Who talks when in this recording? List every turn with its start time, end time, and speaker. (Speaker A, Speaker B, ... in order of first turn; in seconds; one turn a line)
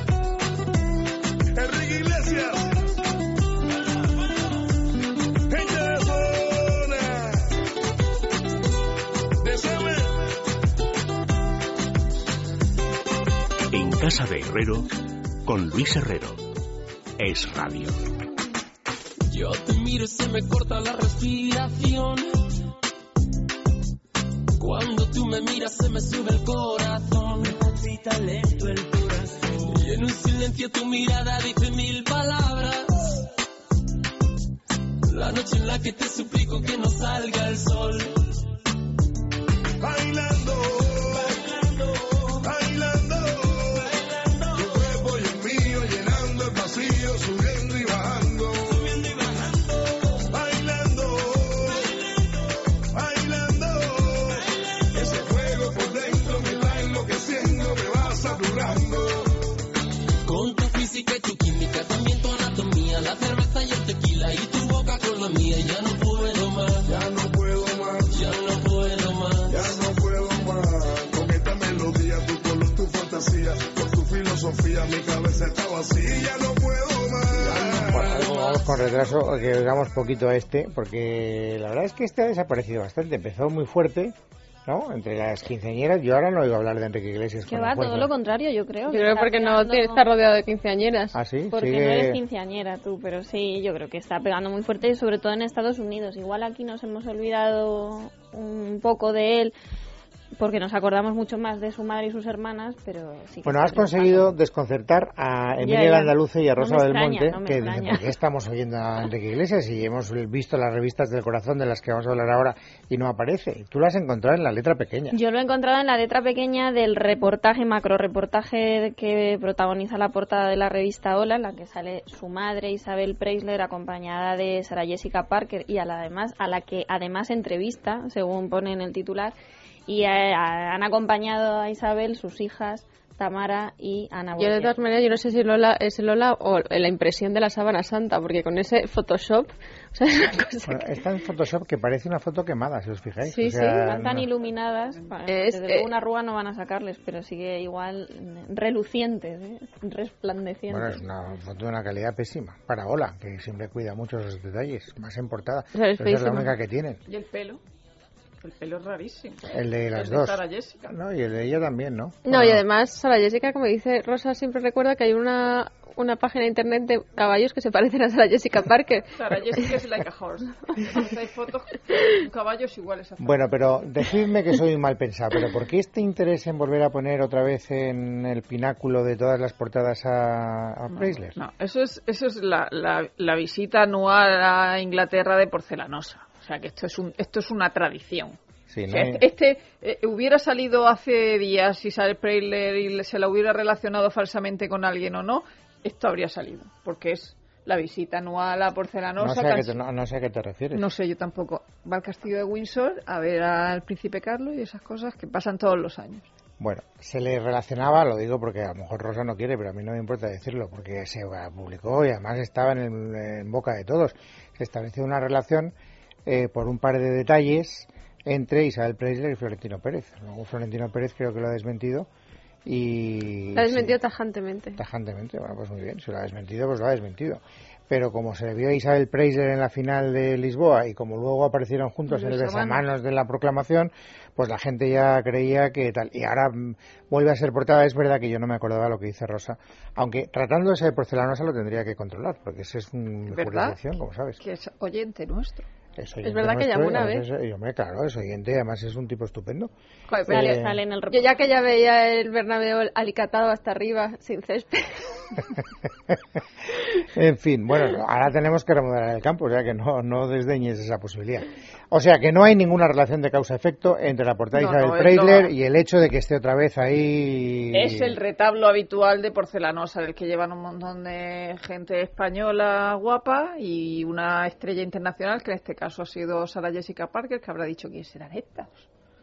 Speaker A: 1.5-2.9
Speaker A: 5.5-7.5
Speaker A: 9.4-10.3
Speaker B: 13.7-16.5
Speaker B: 17.2-18.0
Speaker C: 19.3-22.4
Speaker C: 24.6-33.2
Speaker B: 27.7-29.1
Speaker C: 35.0-38.4
Speaker A: 39.8-41.5
Speaker C: 41.4-42.3
Speaker A: 42.4-44.0
Speaker C: 43.9-44.7
Speaker A: 44.5-49.0
Speaker C: 49.0-49.6
Speaker A: 50.1-52.1
Speaker A: 52.8-59.4
Speaker C: 60.2-66.9
Speaker A: 66.9-68.2
Speaker C: 68.1-69.8
Speaker A: 69.5-78.2
Speaker D: 77.5-88.1
Speaker E: 87.5-90.0
Speaker F: 88.9-91.2
Speaker D: 91.1-92.2
Speaker E: 91.5-99.5
Speaker E: 100.4-104.3
Speaker D: 103.5-115.2
Speaker E: 105.6-108.1
Speaker E: 115.1-129.3
Speaker E: 129.9-134.8
Speaker F: 134.4-140.9
Speaker D: 140.7-144.3
Speaker F: 143.2-143.8
Speaker E: 143.6-151.0
Speaker F: 145.3-145.9
Speaker D: 150.7-157.0
Speaker F: 155.7-156.5
Speaker G: 157.1-157.6
Speaker G: 158.4-160.9
Speaker D: 159.5-162.7
Speaker F: 162.2-169.1
Speaker G: 169.1-173.6
Speaker D: 173.2-181.4
Speaker G: 180.9-188.4
Speaker D: 188.7-189.2
Speaker G: 188.9-199.8
Speaker D: 199.2-200.9
Speaker G: 200.7-206.3
Speaker D: 206.6-215.7
Speaker D: 216.2-222.1
Speaker D: 222.7-224.0
Speaker F: 223.6-224.8
Speaker D: 224.8-244.4
Speaker G: 232.4-232.8
Speaker G: 243.3-243.8
Speaker G: 244.4-245.7
Speaker D: 246.0-249.7
Speaker F: 246.2-247.3
Speaker F: 250.1-250.5
Speaker D: 250.3-250.8
Speaker E: 250.3-251.3
Speaker F: 251.1-255.4
Speaker D: 257.0-268.2
Speaker G: 264.5-265.5
Speaker G: 267.7-278.9